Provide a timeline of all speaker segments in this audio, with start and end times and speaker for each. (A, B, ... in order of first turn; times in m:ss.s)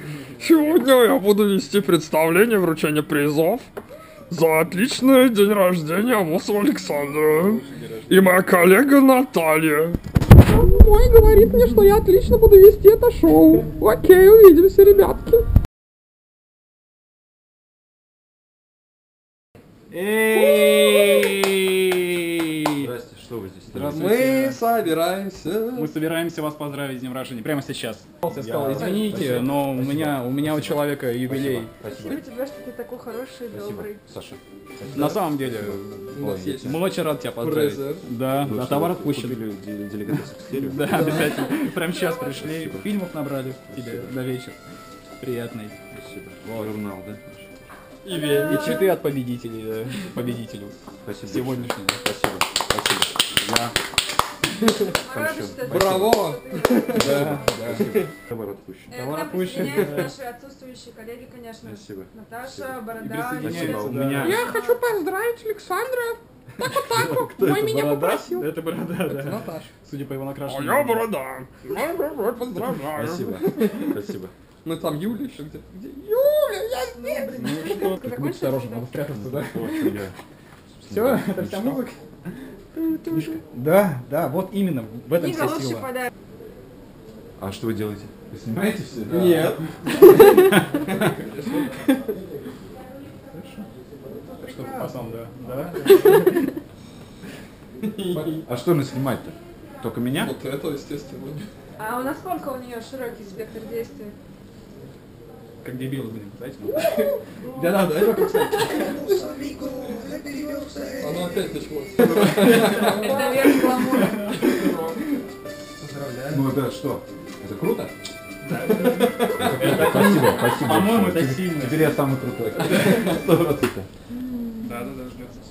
0:00.4-0:03.7 A
0:04.3-0:15.4 A
0:07.2-0:08.5 B
0:19.9-0:22.9 B
0:20.3-0:21.2 A
0:22.8-0:24.1 C
0:23.7-0:24.6 B
0:23.9-0:25.9 A
0:25.7-0:31.7 B
0:28.3-0:32.2 C
0:28.6-0:28.9 A
0:32.0-0:34.0 D
0:33.5-0:36.8 C
0:34.9-0:36.0 B
0:36.1-0:38.1 A
0:36.6-0:39.4 B
0:38.4-0:41.2 C
0:40.1-0:44.6 B
0:40.9-0:42.6 D
0:42.4-0:43.0 C
0:43.7-0:44.1 C
0:45.2-0:45.8 B
0:45.9-0:47.5 C
0:48.0-0:48.9 A
0:48.1-0:49.0 D
0:48.4-0:52.1 B
0:51.0-0:53.8 C
0:54.6-0:54.9 A
0:54.8-0:57.6 D
0:55.1-0:59.0 C
0:55.7-0:57.2 A
0:56.8-0:58.0 B
0:57.8-0:58.1 A
0:58.9-1:04.8 D
0:58.9-1:00.2 B
1:01.6-1:04.4 C
1:03.0-1:04.5 B
1:04.2-1:08.5 A
1:06.6-1:11.1 B
1:09.1-1:09.7 A
1:10.5-1:14.0 A
1:12.9-1:14.3 C
1:14.6-1:17.4 A
1:16.9-1:18.9 D
1:17.3-1:20.1 B
1:19.1-1:20.2 C
1:20.7-1:21.9 C
1:20.9-1:22.5 B
1:23.1-1:26.0 B
1:27.4-1:29.6 C
1:29.1-1:31.9 A
1:30.3-1:31.0 B
1:33.3-1:33.7 B
1:34.4-1:36.5 B
1:37.8-1:38.4 A
1:38.1-1:40.3 C
1:40.1-1:41.5 A
1:41.8-1:44.2 D
1:45.6-1:47.0 B
1:47.4-1:49.0 A
1:47.8-1:50.9 D
1:48.2-1:48.7 B
1:51.0-1:55.1 A
1:52.1-1:54.4 B
1:52.8-1:54.4 D
1:55.8-1:56.5 A
1:56.3-1:57.9 C
1:58.4-2:00.1 A
1:58.5-2:02.0 B
1:59.2-2:03.9 C
2:00.1-2:00.6 D
2:02.7-2:03.0 B
2:04.1-2:05.0 D
2:04.6-2:05.4 B